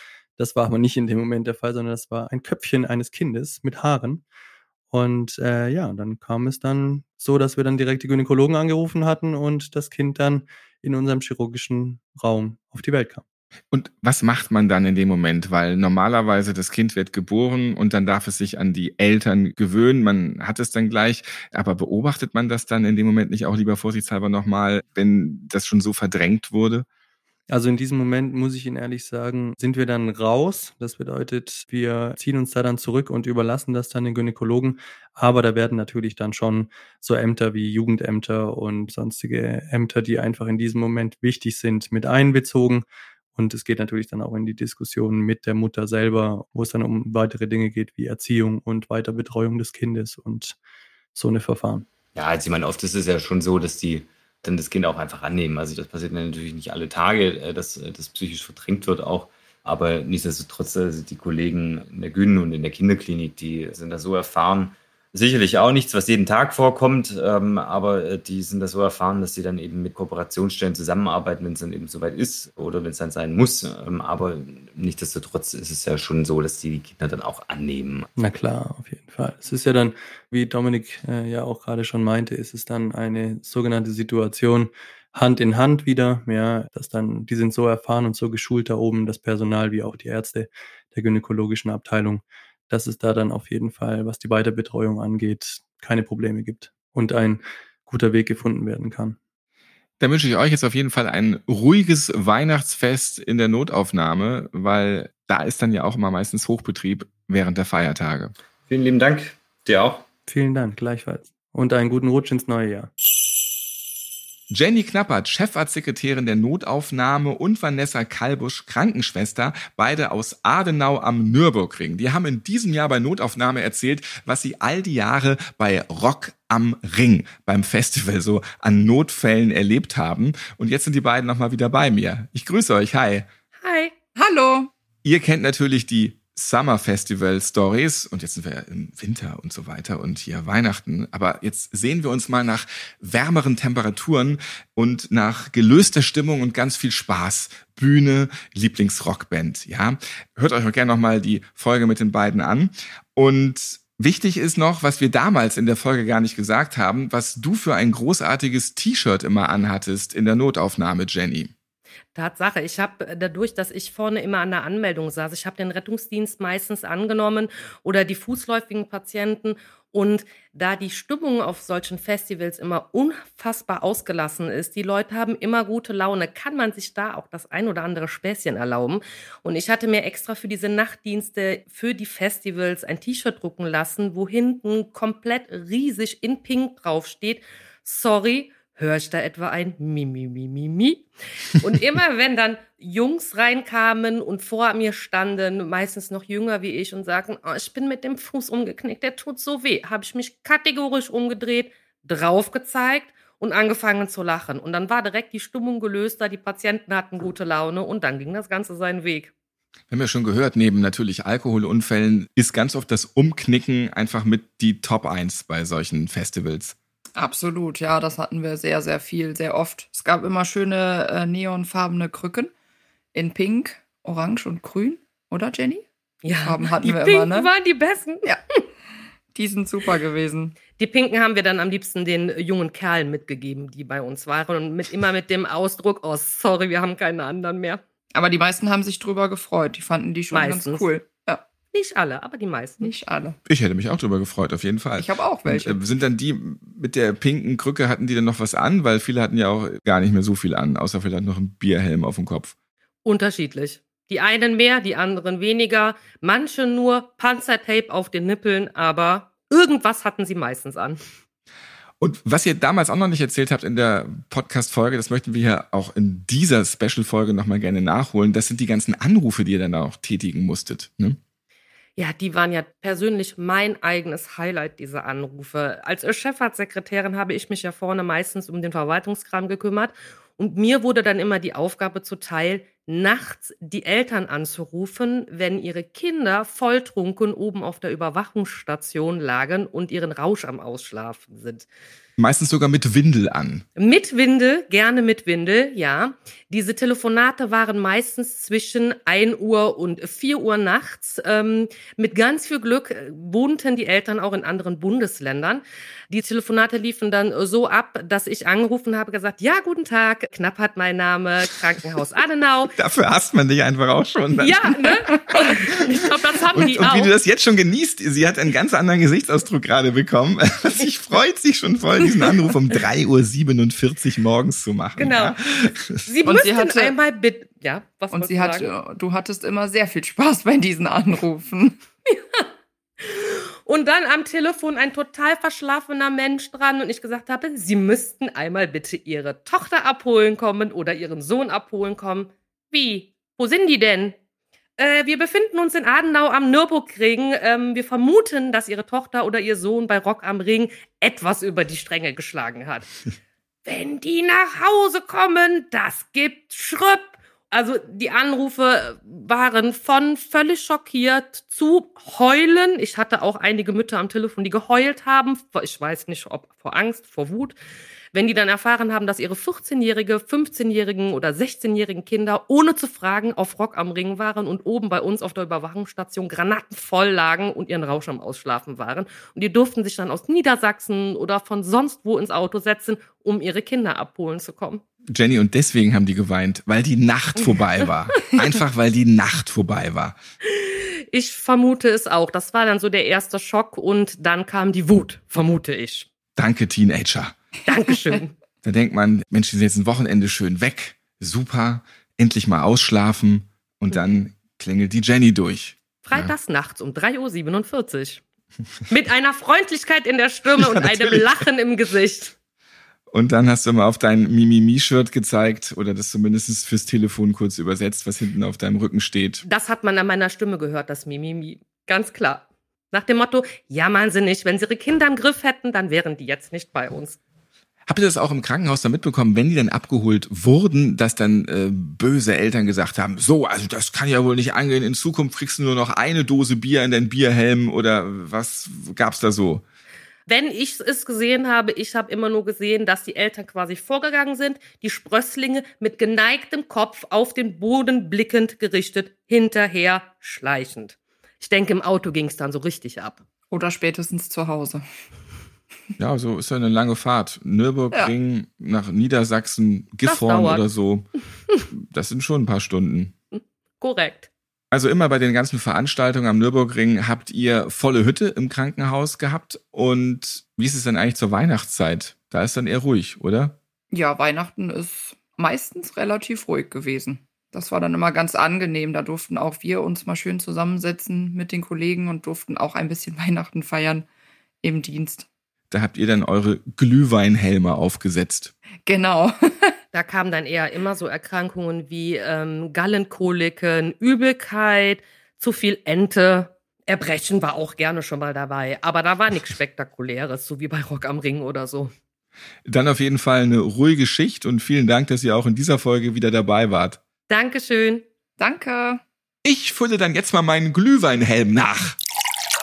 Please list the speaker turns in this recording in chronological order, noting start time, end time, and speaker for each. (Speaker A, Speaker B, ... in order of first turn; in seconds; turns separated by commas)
Speaker A: 0.4-4.2, Speaker A: 4.9-13.2, Speaker B: 13.7-26.9, Speaker A: 27.5-50.6, Speaker A: 51.1-51.9, Speaker C: 52.1-78.1, Speaker A: 78.2-99.2, Speaker B: 100.0-108.3, Speaker C: 108.7-110.1, Speaker A: 110.3-112.9, Speaker B: 114.5-133.3, Speaker D: 133.6-134.0, Speaker E: 134.2-134.7, Speaker B: 135.1-161.5, Speaker D: 162.2-209.3, Speaker B: 209.9-216.8, Speaker E: 217.2-222.5, Speaker E: 223.1-227.5, Speaker D: 226.2-228.3, Speaker E: 229.3-230.6, Speaker D: 230.6-237.8, Speaker E: 238.1-241.4, Speaker D: 240.3-240.9, Speaker D: 241.7-242.9, Speaker E: 242.8-243.4, Speaker B: 243.5-252.5, Speaker E: 245.0-245.8, Speaker D: 253.1-261.0, Speaker B: 262.0-271.2, Speaker D: 272.0-291.7, Speaker B: 292.2-293.6, Speaker D: 293.8-312.7, Speaker B: 312.8-314.6, Speaker D: 314.4-317.1, Speaker B: 316.5-326.0, Speaker D: 325.0-325.4, Speaker D: 326.1-328.7, Speaker E: 326.2-327.0, Speaker E: 328.1-331.8, Speaker D: 332.1-332.4, Speaker D: 333.0-344.1, Speaker D: 344.8-352.9, Speaker D: 353.6-367.6, Speaker D: 368.1-384.8, Speaker B: 385.1-390.2, Speaker D: 390.6-396.1, Speaker B: 396.4-397.4, Speaker D: 397.7-398.3, Speaker E: 397.8-398.1, Speaker B: 398.6-406.3, Speaker D: 406.0-408.2, Speaker D: 408.9-412.3, Speaker B: 410.6-411.3, Speaker B: 413.1-419.4, Speaker D: 419.4-427.2, Speaker B: 427.9-439.6, Speaker D: 440.3-453.2, Speaker E: 453.5-454.9, Speaker B: 456.0-461.1, Speaker D: 460.0-460.6, Speaker B: 461.7-463.1, Speaker D: 463.3-464.3, Speaker B: 464.7-473.6, Speaker E: 473.9-484.1, Speaker E: 484.6-485.3, Speaker B: 485.7-488.5, Speaker E: 488.9-489.7, Speaker D: 489.9-501.9, Speaker B: 502.7-507.0, Speaker D: 507.3-508.1, Speaker E: 508.4-509.0, Speaker B: 509.4-512.0